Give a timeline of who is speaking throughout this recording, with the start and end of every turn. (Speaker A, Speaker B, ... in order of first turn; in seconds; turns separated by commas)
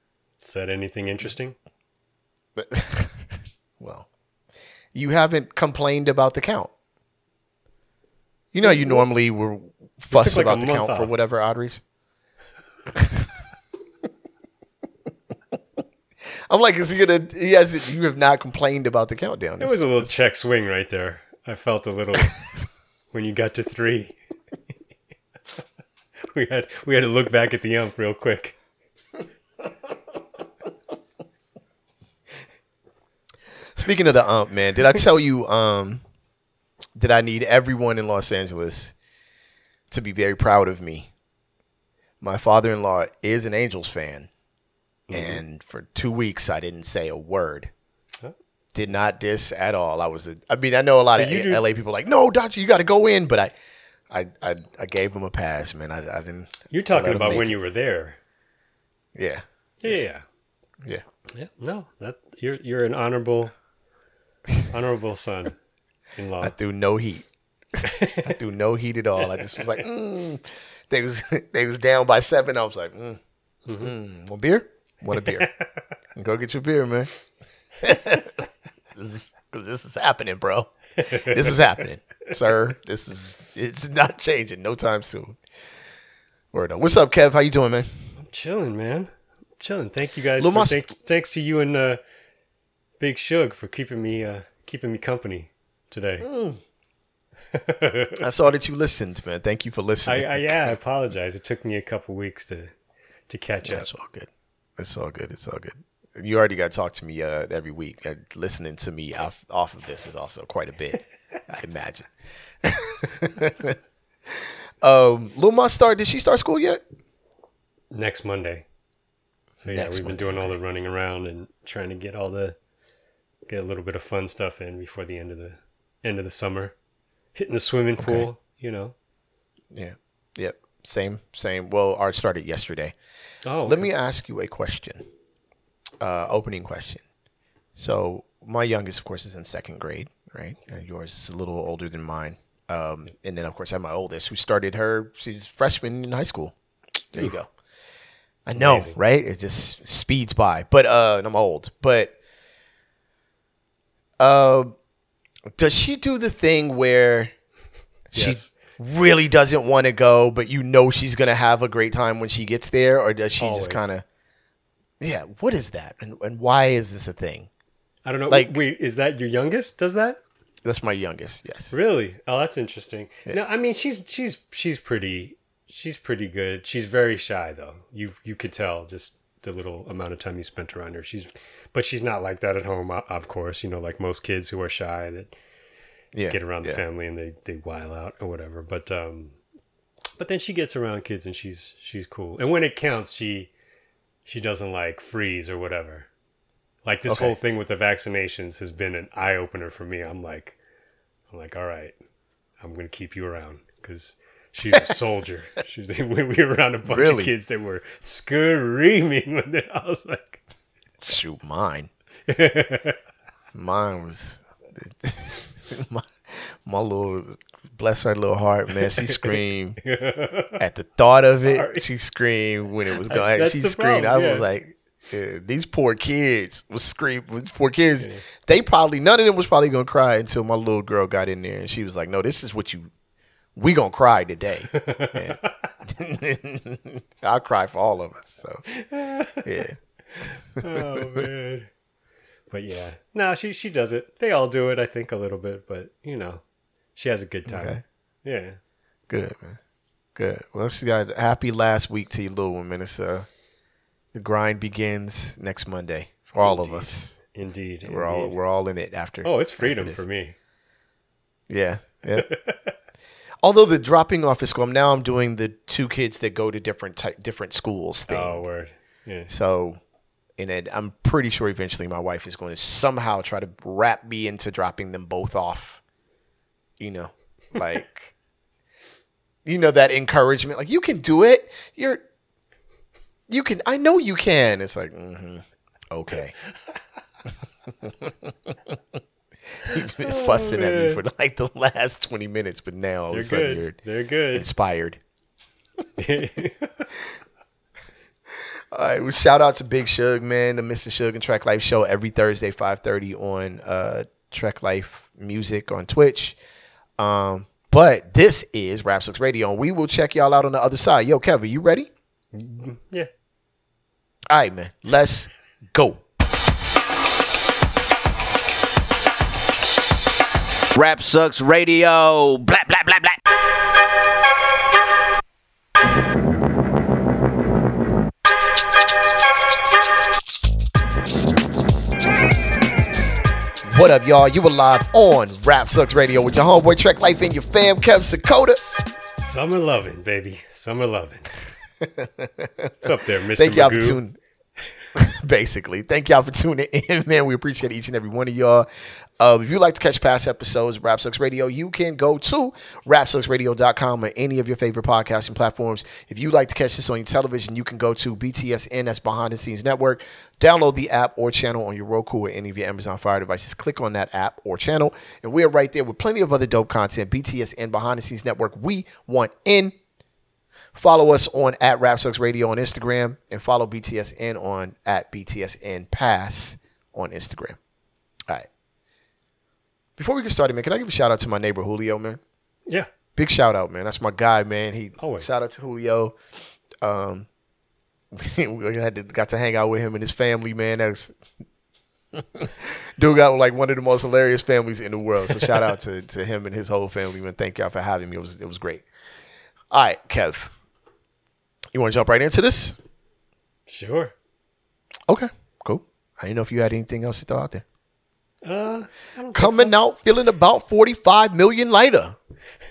Speaker A: 0.4-1.6, Speaker B: 2.5-4.1, Speaker B: 4.9-6.7, Speaker B: 8.5-11.8, Speaker A: 8.6-9.0, Speaker A: 10.1-11.1, Speaker B: 12.9-13.2, Speaker B: 16.5-20.2, Speaker A: 19.6-22.4, Speaker A: 23.1-24.1, Speaker A: 26.2-28.5, Speaker B: 33.8-36.0, Speaker B: 37.0-38.9, Speaker B: 39.9-41.1, Speaker B: 42.2-44.3, Speaker A: 45.1-45.4, Speaker B: 45.1-47.7, Speaker B: 48.7-53.5, Speaker A: 51.1-51.6, Speaker B: 54.1-57.5, Speaker A: 56.7-58.2, Speaker B: 59.1-59.4, Speaker A: 59.8-60.2, Speaker A: 61.2-63.5, Speaker A: 64.7-65.6, Speaker A: 66.2-66.5, Speaker B: 66.4-73.2, Speaker A: 67.8-68.4, Speaker A: 69.4-69.8, Speaker A: 73.7-73.9, Speaker B: 73.8-75.5, Speaker A: 75.1-75.7, Speaker B: 76.2-77.1, Speaker B: 77.8-78.4, Speaker B: 78.9-85.4, Speaker A: 81.0-81.6, Speaker B: 86.5-88.0, Speaker A: 88.2-92.0, Speaker B: 90.4-90.9, Speaker A: 93.0-96.2, Speaker B: 96.2-96.6, Speaker A: 97.5-98.2, Speaker B: 98.2-100.7, Speaker A: 100.0-102.7, Speaker A: 103.3-103.9, Speaker B: 103.6-112.1, Speaker B: 112.6-113.8, Speaker B: 114.3-116.8, Speaker A: 117.9-118.7, Speaker B: 119.6-120.5, Speaker A: 119.6-122.5, Speaker A: 123.5-126.7, Speaker A: 127.3-128.9, Speaker B: 128.0-128.3, Speaker B: 129.7-132.9, Speaker A: 133.4-133.9, Speaker B: 133.6-135.1, Speaker B: 136.0-137.0, Speaker B: 137.8-146.5, Speaker B: 147.1-147.5, Speaker B: 148.4-152.1, Speaker A: 148.6-148.9, Speaker B: 154.2-154.7, Speaker B: 155.6-157.3, Speaker B: 158.1-164.0, Speaker A: 158.1-158.5, Speaker A: 163.4-163.9, Speaker B: 165.0-167.5, Speaker A: 168.0-170.2, Speaker B: 168.3-168.6, Speaker B: 170.6-171.7, Speaker A: 171.7-185.3, Speaker B: 186.1-186.8, Speaker A: 186.3-189.4, Speaker A: 190.2-193.5, Speaker A: 194.2-196.1, Speaker A: 196.8-200.6, Speaker B: 197.1-197.3, Speaker A: 201.3-201.9, Speaker A: 202.6-210.4, Speaker B: 206.9-207.3, Speaker B: 211.0-211.9, Speaker A: 212.3-213.0, Speaker B: 213.5-219.8, Speaker A: 218.8-220.6, Speaker B: 220.6-232.9, Speaker A: 221.4-221.8, Speaker A: 223.1-224.4, Speaker B: 233.6-238.7, Speaker A: 234.7-235.7, Speaker A: 238.7-241.7, Speaker B: 239.4-239.8, Speaker B: 240.6-241.2, Speaker A: 242.5-246.4, Speaker A: 246.9-248.6, Speaker B: 247.5-247.8, Speaker B: 249.1-249.6, Speaker B: 250.2-253.3, Speaker B: 254.1-257.2, Speaker A: 256.4-258.4, Speaker B: 257.8-260.0, Speaker A: 259.2-260.3, Speaker B: 261.5-262.3, Speaker A: 262.2-262.7, Speaker B: 263.4-268.4, Speaker A: 268.1-269.3, Speaker B: 269.3-269.8, Speaker B: 270.4-275.8, Speaker B: 276.8-278.1, Speaker B: 279.4-282.0, Speaker B: 283.3-286.4, Speaker B: 287.8-288.5, Speaker B: 289.6-293.8, Speaker A: 290.0-291.0, Speaker A: 293.1-294.4, Speaker B: 294.3-295.0, Speaker A: 296.0-296.9, Speaker B: 298.7-306.4, Speaker B: 307.0-311.9, Speaker A: 312.3-313.1, Speaker B: 314.3-316.0, Speaker C: 320.7-323.2, Speaker B: 333.6-338.6, Speaker A: 339.2-341.3, Speaker B: 341.8-342.7, Speaker A: 342.8-344.0, Speaker B: 343.3-344.2, Speaker B: 344.9-348.7, Speaker B: 349.2-369.7, Speaker B: 370.7-377.6, Speaker B: 380.0-382.2, Speaker B: 383.1-386.1, Speaker A: 385.0-385.3, Speaker B: 386.8-387.3, Speaker B: 388.1-391.1, Speaker B: 392.1-398.9, Speaker B: 399.7-400.5, Speaker B: 401.7-402.8, Speaker A: 403.7-404.1, Speaker B: 405.1-407.6, Speaker A: 408.4-409.7, Speaker B: 409.3-412.2